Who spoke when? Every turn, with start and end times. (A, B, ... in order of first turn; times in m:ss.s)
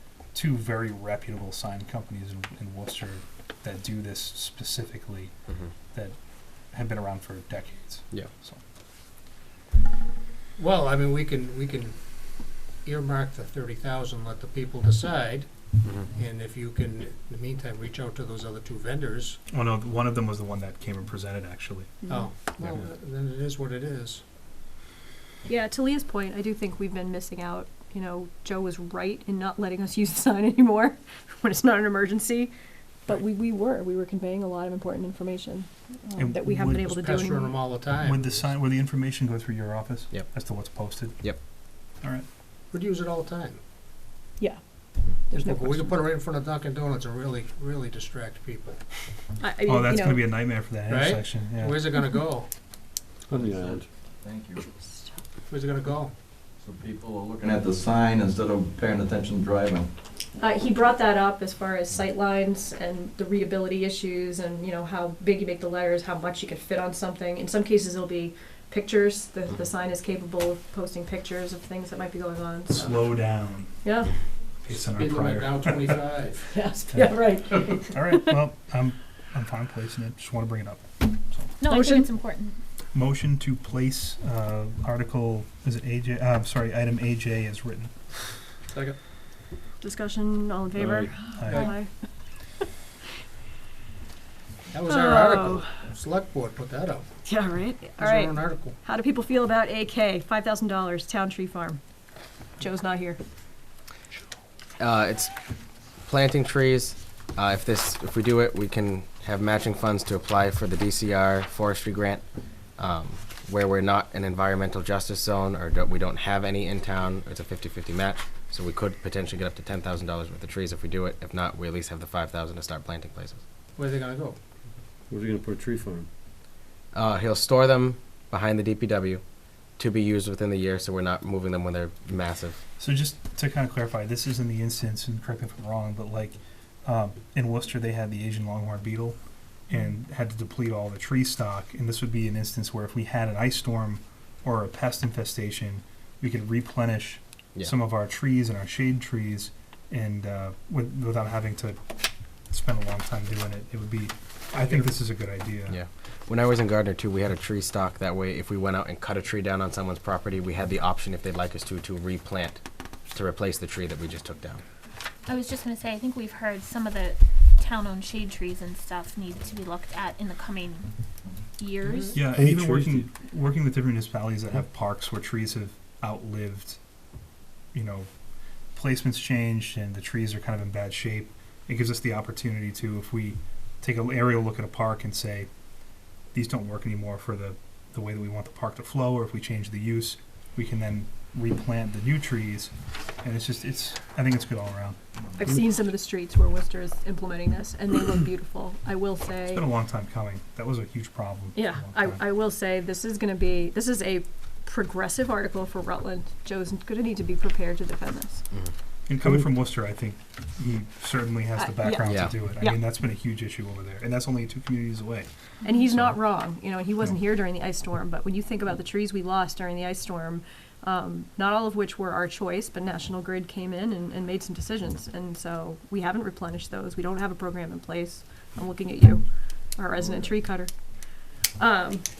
0:00.3-0:05.3 A
0:06.7-0:08.6 A
0:10.6-0:19.4 B
0:19.5-0:21.9 A
0:22.0-0:22.3 C
0:22.1-0:24.2 B
0:25.5-0:32.5 C
0:33.0-0:37.6 C
0:36.2-0:36.8 A
0:36.8-0:38.4 B
0:37.9-0:41.3 A
0:40.1-0:40.4 D
0:42.7-0:43.6 B
0:45.3-0:46.0 C
0:45.3-0:48.8 B
0:49.4-0:50.3 C
0:49.6-0:51.9 A
0:50.8-0:52.5 B
0:53.3-0:53.9 E
0:53.3-0:54.6 F
0:55.5-0:56.1 B
0:56.6-0:59.9 F
1:00.4-1:12.9 C
1:12.7-1:13.9 A
1:13.8-1:14.1 C
1:14.6-1:16.0 A
1:14.9-1:16.5 B
1:16.5-1:18.3 C
1:16.9-1:21.5 A
1:21.6-1:22.6 G
1:21.7-1:22.1 C
1:22.9-1:27.9 A
1:29.8-1:31.9 C
1:30.8-1:31.1 E
1:31.4-1:31.7 A
1:31.5-1:31.8 B
1:34.7-1:37.0 B
1:34.8-1:35.7 C
1:37.2-1:41.8 C
1:38.0-1:38.8 B
1:42.6-1:43.2 C
1:44.8-1:45.3 D
1:46.0-1:52.2 D
1:52.8-2:03.4 D
2:03.8-2:04.4 B
2:05.1-2:06.1 E
2:06.9-2:09.2 D
2:09.8-2:12.6 D
2:12.8-2:19.2 A
2:19.7-2:31.8 A
2:32.5-2:35.8 A
2:35.7-2:44.6 D
2:45.3-2:50.9 G
2:51.6-2:52.2 G
2:51.9-2:52.2 B
2:52.1-2:56.8 A
2:52.3-2:53.1 E
2:57.7-2:58.1 A
2:58.7-3:05.5 A
3:06.3-3:15.0 A
3:15.4-3:19.6 C
3:19.5-3:22.2 A
3:21.5-3:28.4 C
3:29.1-3:35.3 A
3:31.6-3:32.8 C
3:32.0-3:32.3 D
3:35.6-3:50.7 C
3:50.0-3:50.3 F
3:51.6-3:52.0 C